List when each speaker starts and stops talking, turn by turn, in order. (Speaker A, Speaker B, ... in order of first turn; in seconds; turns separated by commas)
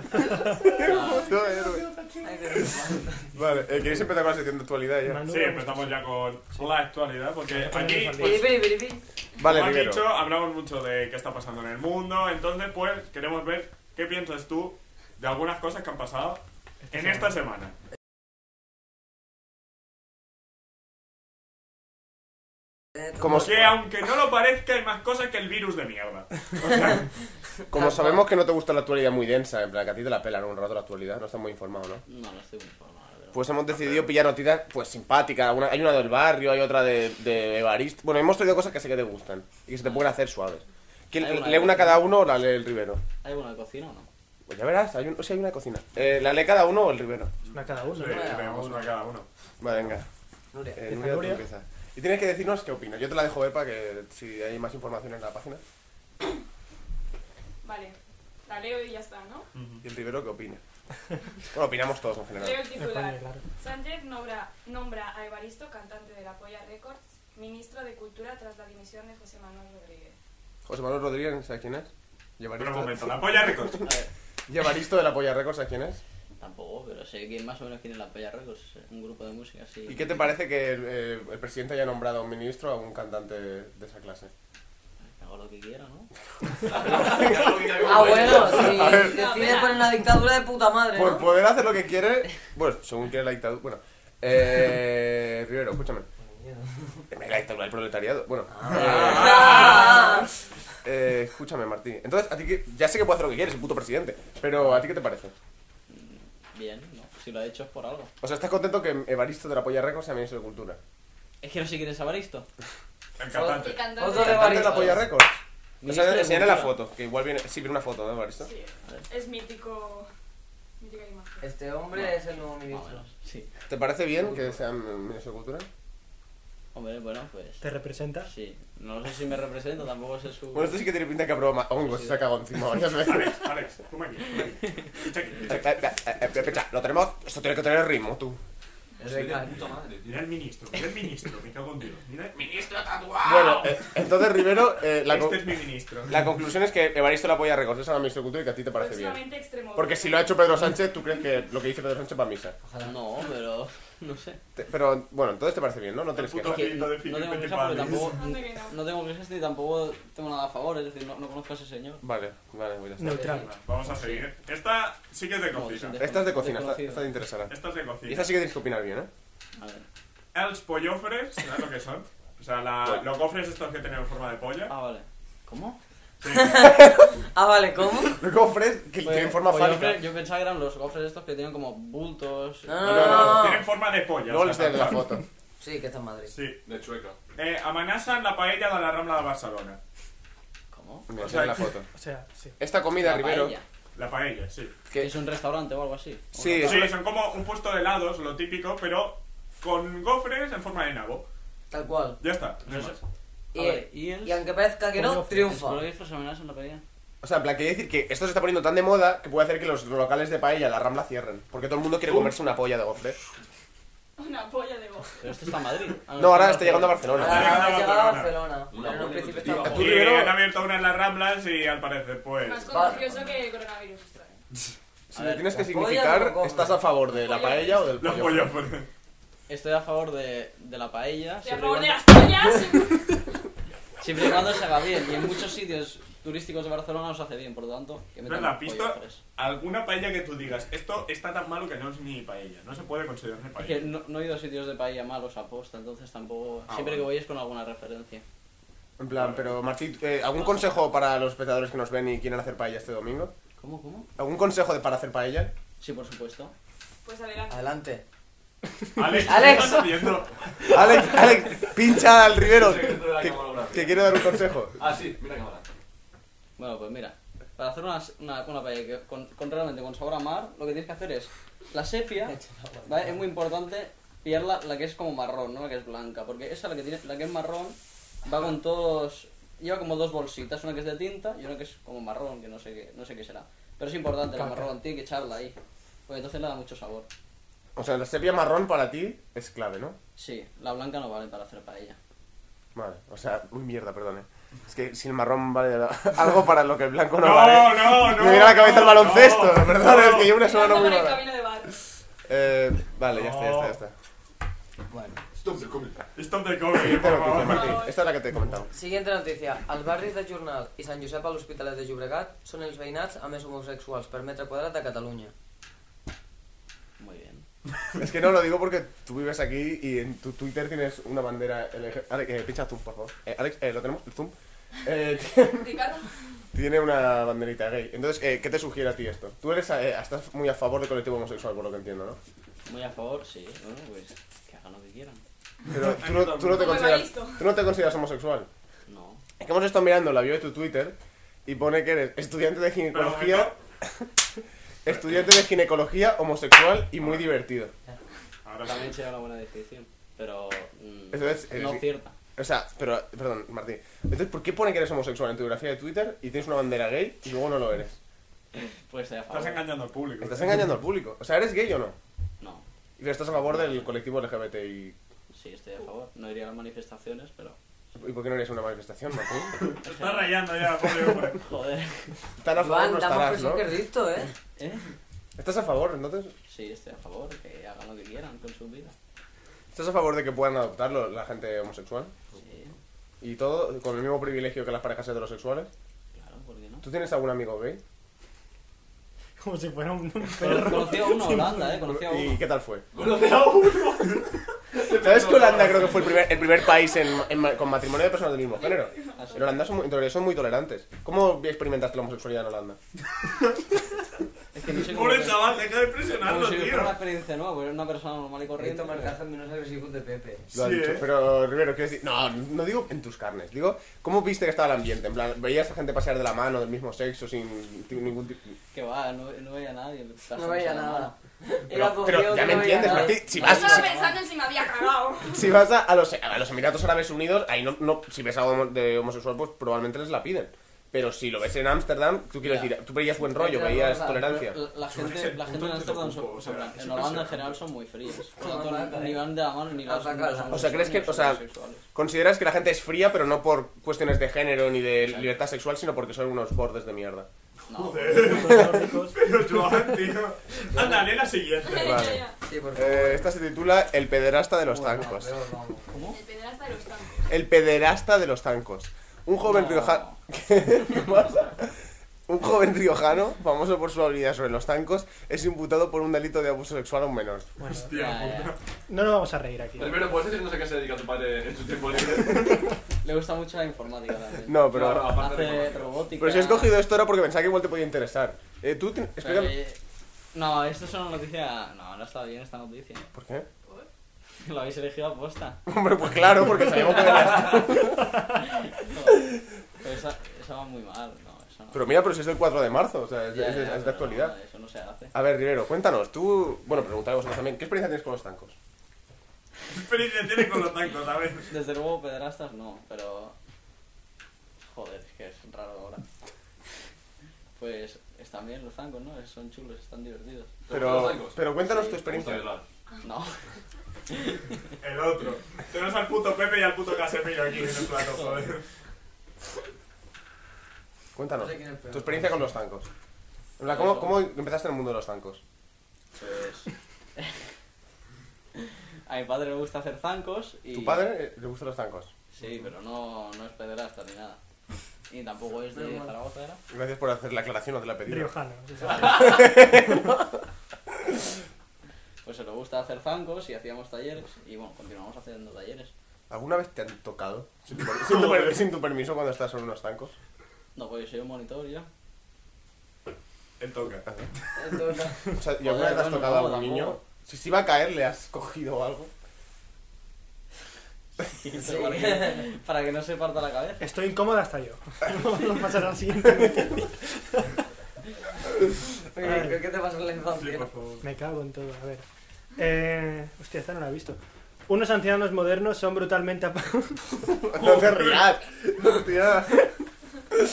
Speaker A: 0.4-5.3, Speaker B: 0.8-1.3, Speaker C: 2.2-3.3, Speaker D: 5.0-6.0, Speaker E: 5.3-8.5, Speaker D: 7.4-8.6, Speaker C: 8.2-9.0, Speaker A: 9.4-10.1, Speaker E: 9.4-17.7, Speaker D: 16.9-17.3, Speaker A: 23.2-23.8, Speaker E: 23.3-27.1, Speaker A: 27.7-32.0, Speaker C: 27.7-28.2, Speaker B: 32.1-33.5, Speaker A: 33.3-43.0, Speaker B: 39.8-40.1, Speaker B: 41.2-42.1, Speaker B: 43.2-44.1, Speaker A: 44.5-47.3, Speaker E: 47.5-49.3, Speaker D: 47.5-48.4, Speaker C: 48.0-49.0, Speaker A: 49.6-50.1, Speaker C: 50.5-50.8, Speaker A: 50.8-55.6, Speaker D: 50.9-51.4, Speaker F: 57.6-59.5, Speaker E: 59.5-59.8, Speaker A: 59.8-60.6, Speaker A: 61.5-62.7, Speaker F: 62.4-70.2, Speaker D: 62.8-63.4, Speaker A: 70.7-73.7, Speaker E: 72.6-73.8, Speaker B: 73.8-74.1, Speaker A: 74.5-76.0, Speaker B: 76.4-80.3, Speaker A: 79.9-84.3, Speaker B: 85.0-86.1, Speaker G: 86.7-88.8, Speaker A: 87.1-87.5, Speaker C: 87.8-91.3, Speaker A: 88.4-89.3, Speaker F: 88.8-90.0, Speaker A: 90.9-96.1, Speaker C: 96.2-97.1, Speaker A: 97.1-100.1, Speaker C: 98.5-100.3, Speaker E: 98.7-100.2, Speaker A: 100.8-105.3, Speaker B: 105.9-108.1, Speaker A: 108.2-110.8, Speaker B: 111.4-112.5, Speaker E: 113.2-113.9, Speaker C: 113.3-115.0, Speaker F: 113.5-114.7, Speaker A: 114.1-118.5, Speaker B: 114.5-115.0, Speaker B: 115.8-116.8, Speaker F: 118.4-120.1, Speaker F: 120.8-121.5, Speaker C: 121.4-123.0, Speaker B: 122.0-123.5, Speaker A: 123.7-125.7, Speaker B: 126.7-127.6, Speaker D: 127.6-128.3, Speaker B: 128.2-130.8, Speaker A: 130.5-133.4, Speaker E: 132.9-135.7, Speaker A: 135.4-138.4, Speaker G: 139.0-140.3, Speaker C: 139.0-139.7, Speaker E: 140.1-142.5, Speaker G: 142.3-143.7, Speaker A: 143.2-145.4, Speaker E: 145.1-146.3, Speaker A: 146.1-149.2, Speaker F: 148.7-150.4, Speaker A: 149.8-152.6, Speaker C: 152.6-153.0, Speaker B: 152.8-154.4, Speaker A: 154.6-156.7, Speaker E: 156.1-158.2, Speaker B: 156.4-162.0, Speaker F: 158.0-158.8, Speaker A: 162.0-163.4, Speaker D: 163.0-163.5, Speaker C: 163.1-163.4, Speaker E: 163.3-166.0, Speaker B: 163.9-164.3, Speaker B: 165.5-167.0, Speaker A: 166.0-169.1, Speaker E: 167.5-168.3, Speaker B: 169.6-169.9, Speaker E: 170.3-174.7, Speaker B: 174.7-175.8, Speaker E: 176.2-176.7, Speaker C: 176.3-178.2, Speaker A: 176.6-177.1, Speaker A: 178.2-180.0, Speaker B: 179.0-183.4, Speaker C: 182.7-183.7, Speaker A: 182.8-183.5, Speaker E: 182.8-185.0, Speaker A: 184.3-185.2, Speaker C: 185.6-186.3, Speaker E: 186.3-186.6, Speaker G: 186.7-187.2, Speaker E: 187.4-189.8, Speaker B: 190.7-191.1, Speaker A: 191.1-191.9, Speaker E: 191.2-191.7, Speaker D: 191.9-192.6, Speaker A: 192.6-193.6, Speaker B: 193.0-193.7, Speaker E: 194.0-194.7, Speaker B: 195.0-196.8, Speaker A: 196.3-196.9, Speaker E: 196.6-201.3, Speaker C: 201.7-202.2, Speaker E: 202.2-203.0, Speaker B: 202.7-203.0, Speaker C: 203.5-205.8, Speaker B: 203.6-206.8, Speaker D: 205.0-205.5, Speaker A: 207.2-213.2, Speaker G: 212.0-212.4, Speaker F: 214.2-215.1, Speaker B: 215.2-217.3, Speaker A: 216.2-217.8, Speaker E: 217.1-218.4, Speaker C: 217.2-220.0, Speaker G: 218.7-220.1, Speaker B: 218.8-219.9, Speaker A: 219.5-220.4, Speaker E: 219.7-222.9, Speaker F: 222.4-224.4, Speaker C: 222.7-223.3, Speaker A: 225.1-228.6, Speaker B: 225.2-225.5, Speaker C: 225.5-226.8, Speaker F: 227.0-228.0, Speaker E: 228.0-228.9, Speaker B: 229.5-232.1, Speaker F: 231.4-233.2, Speaker B: 234.0-239.2, Speaker E: 238.3-243.9, Speaker B: 243.6-248.2, Speaker E: 246.7-247.1, Speaker A: 249.0-253.3, Speaker E: 249.1-249.6, Speaker F: 250.4-250.9, Speaker B: 253.6-254.1, Speaker A: 254.2-255.5, Speaker B: 255.8-256.5, Speaker F: 257.1-257.7, Speaker C: 257.5-258.0, Speaker E: 259.0-261.2, Speaker C: 259.2-260.1, Speaker A: 260.7-264.8, Speaker G: 262.4-264.1, Speaker G: 264.7-265.6, Speaker B: 266.6-285.6, Speaker C: 272.2-273.2, Speaker D: 284.3-284.7, Speaker B: 286.1-287.1, Speaker A: 287.8-290.0, Speaker B: 290.2-292.0, Speaker A: 292.8-301.3, Speaker E: 297.2-300.3, Speaker F: 300.3-301.8, Speaker A: 302.3-303.9, Speaker E: 303.1-303.8, Speaker C: 304.9-305.2, Speaker G: 305.4-306.0, Speaker E: 306.2-307.8, Speaker A: 306.7-308.7, Speaker F: 307.4-308.1, Speaker C: 308.7-315.3, Speaker B: 317.0-317.4, Speaker A: 318.0-324.3, Speaker A: 324.9-325.8, Speaker F: 325.3-326.1, Speaker A: 326.5-332.2, Speaker B: 332.7-335.2, Speaker A: 335.7-338.5, Speaker E: 335.8-336.6, Speaker F: 336.4-337.6, Speaker B: 338.9-339.2, Speaker A: 339.4-344.1, Speaker E: 342.9-343.6, Speaker A: 344.9-347.7, Speaker E: 348.4-348.9, Speaker B: 348.6-352.1, Speaker A: 351.1-358.0, Speaker B: 358.6-359.6, Speaker E: 359.3-360.7, Speaker A: 360.2-362.0, Speaker A: 363.0-365.0, Speaker B: 363.4-363.9, Speaker B: 365.3-367.6, Speaker A: 367.9-369.6, Speaker E: 369.7-371.4, Speaker B: 369.8-370.4, Speaker B: 371.4-372.1, Speaker A: 372.4-373.8, Speaker C: 372.6-374.3, Speaker B: 374.6-374.9, Speaker A: 375.4-376.3, Speaker B: 376.5-378.9, Speaker A: 379.7-382.1, Speaker B: 382.4-382.8, Speaker A: 383.2-385.7, Speaker B: 386.1-386.9, Speaker A: 386.8-387.8, Speaker D: 389.4-391.9, Speaker B: 390.4-392.4, Speaker A: 391.9-392.9, Speaker G: 392.9-396.3, Speaker A: 394.9-402.8, Speaker F: 398.6-399.6, Speaker B: 399.2-399.5, Speaker E: 403.2-403.6, Speaker B: 404.5-405.5, Speaker E: 404.8-407.0, Speaker B: 406.2-409.2, Speaker C: 408.6-410.5, Speaker E: 410.5-411.1, Speaker A: 410.5-418.6, Speaker B: 418.7-421.1, Speaker C: 420.4-423.8, Speaker A: 421.7-423.9, Speaker B: 422.1-424.1, Speaker F: 423.2-425.5, Speaker A: 425.3-434.6, Speaker B: 432.4-432.8, Speaker C: 433.3-434.3, Speaker B: 433.7-441.9, Speaker E: 434.9-437.6, Speaker C: 438.4-439.3, Speaker C: 439.8-440.8, Speaker A: 440.5-441.4, Speaker A: 441.9-447.3, Speaker B: 445.0-445.4, Speaker B: 447.7-448.5, Speaker E: 447.8-452.1, Speaker D: 448.2-449.2, Speaker A: 448.5-448.9, Speaker C: 450.8-451.0, Speaker F: 451.6-452.4, Speaker A: 451.7-455.3, Speaker C: 452.4-453.3, Speaker C: 454.7-456.0, Speaker B: 455.9-456.2, Speaker F: 456.1-457.4, Speaker A: 457.3-461.8, Speaker B: 459.4-460.2, Speaker A: 462.3-467.5, Speaker D: 467.6-468.1, Speaker E: 467.7-468.6, Speaker B: 467.9-468.5, Speaker D: 468.9-470.2, Speaker G: 469.8-472.6, Speaker B: 473.0-476.8, Speaker A: 474.5-475.1, Speaker G: 474.7-475.9, Speaker A: 476.2-479.6, Speaker B: 479.2-479.8, Speaker B: 480.3-483.1, Speaker A: 483.1-483.5, Speaker F: 483.6-483.9, Speaker B: 484.4-485.6, Speaker A: 485.7-488.1, Speaker B: 488.4-491.9, Speaker A: 491.7-494.4, Speaker B: 493.3-495.1, Speaker A: 495.1-498.6, Speaker E: 499.7-501.5, Speaker B: 501.5-503.4, Speaker B: 504.7-506.0, Speaker B: 507.6-510.5, Speaker G: 510.7-511.4, Speaker A: 510.7-512.5, Speaker B: 511.6-512.4, Speaker G: 512.1-512.7, Speaker B: 513.0-513.4, Speaker B: 514.1-514.5, Speaker E: 514.8-518.6, Speaker B: 518.0-518.5, Speaker A: 521.2-522.9, Speaker C: 521.4-522.5, Speaker A: 523.6-525.4, Speaker B: 523.7-524.2, Speaker B: 526.2-527.4, Speaker B: 528.6-531.1, Speaker A: 530.7-532.1, Speaker B: 532.3-534.4, Speaker B: 535.1-536.6, Speaker C: 535.7-536.1, Speaker A: 536.7-538.3, Speaker D: 538.1-539.8, Speaker A: 539.0-540.4, Speaker B: 542.2-545.9, Speaker A: 546.3-550.1, Speaker E: 547.7-548.6, Speaker B: 550.8-551.9, Speaker E: 553.6-554.1, Speaker C: 554.5-555.3, Speaker A: 555.3-559.1, Speaker B: 555.6-557.0, Speaker B: 561.4-563.9, Speaker C: 561.5-562.5, Speaker D: 563.8-567.5, Speaker C: 569.1-570.7, Speaker D: 569.2-569.6, Speaker E: 570.3-571.0, Speaker D: 571.0-572.1, Speaker D: 572.6-577.2, Speaker A: 577.4-579.8, Speaker E: 577.6-578.3